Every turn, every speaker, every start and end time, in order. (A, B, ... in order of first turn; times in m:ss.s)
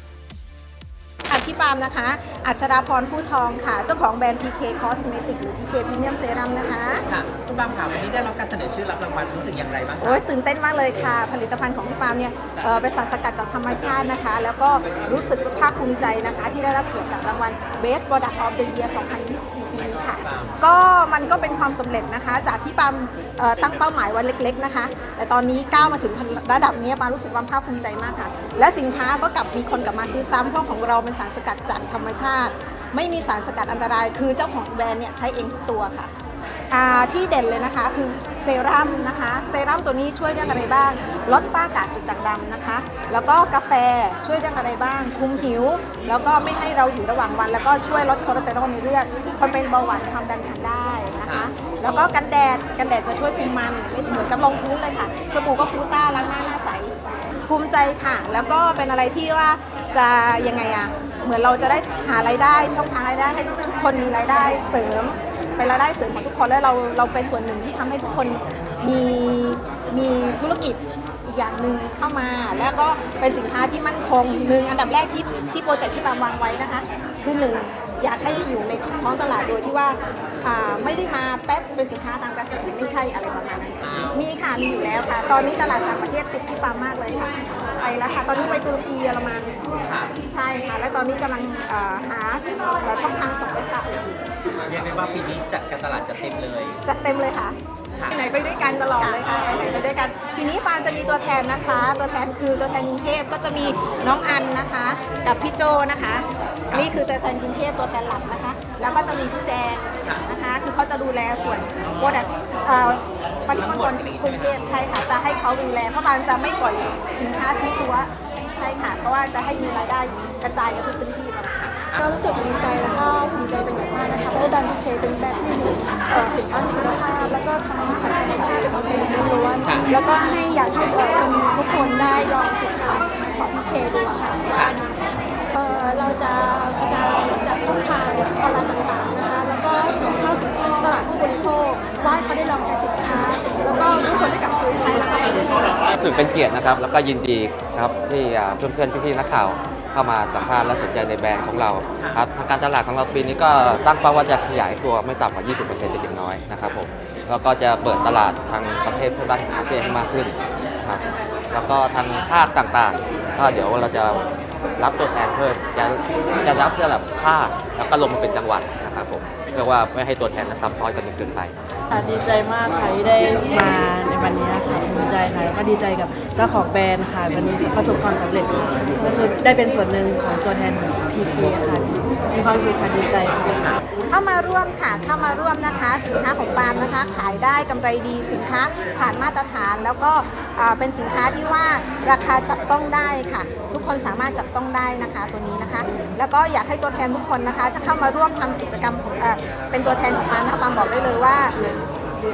0:01.3-0:07.0 A
0:07.1-0:10.2 B
0:10.0-0:36.1 A
0:20.2-0:20.6 B
0:36.7-0:57.0 A
0:57.5-1:29.6 A
1:23.8-1:24.2 B
1:29.8-1:30.1 B
1:30.2-1:34.1 A
1:34.7-1:36.8 B
1:36.8-1:37.6 A
1:38.0-1:38.3 B
1:38.1-2:01.6 A
1:53.5-1:54.6 B
2:01.6-2:02.2 B
2:02.0-2:14.8 C
2:07.8-2:08.4 A
2:09.6-2:10.0 B
2:14.5-2:14.8 B
2:15.5-2:25.8 C
2:26.0-2:44.2 D
2:44.8-2:51.5 D
2:51.9-3:03.8 E
3:04.1-3:21.6 A